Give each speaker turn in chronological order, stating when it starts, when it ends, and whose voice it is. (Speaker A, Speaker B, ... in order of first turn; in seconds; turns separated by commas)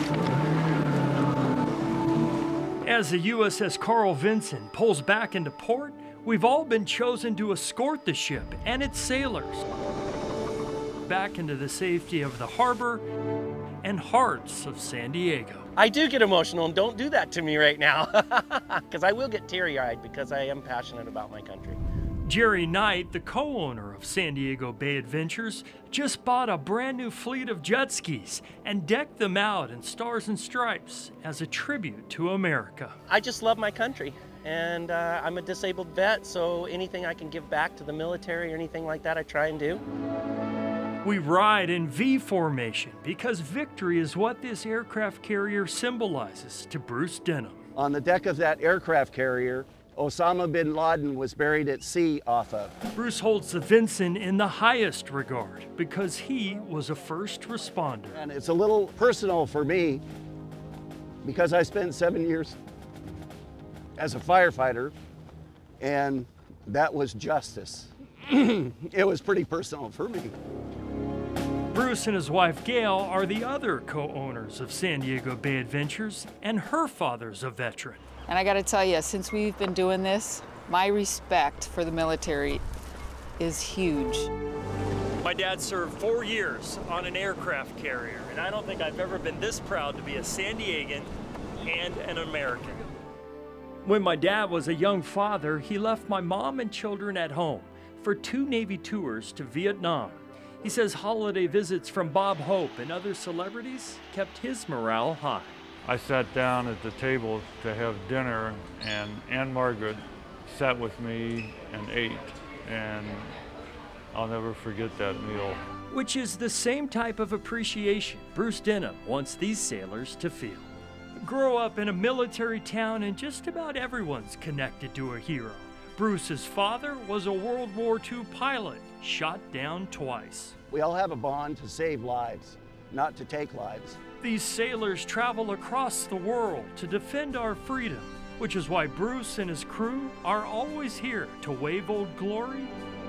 Speaker A: 2.8-9.6, Speaker A: 11.0-13.0, Speaker A: 13.8-15.7, Speaker B: 15.8-21.8, Speaker A: 22.2-32.9, Speaker B: 33.1-39.8, Speaker A: 41.0-47.6, Speaker C: 47.8-52.7, Speaker A: 52.9-58.2, Speaker C: 58.1-60.0, Speaker C: 61.2-62.6, Speaker C: 64.0-64.9, Speaker C: 65.8-70.3, Speaker A: 71.7-78.0, Speaker D: 78.3-82.6, Speaker D: 83.4-84.3, Speaker A: 85.2-91.1, Speaker A: 91.6-92.8, Speaker A: 93.8-105.6, Speaker E: 105.8-113.3, Speaker E: 114.1-115.6, Speaker A: 115.9-130.5, Speaker C: 130.7-134.0, Speaker A: 134.2-142.7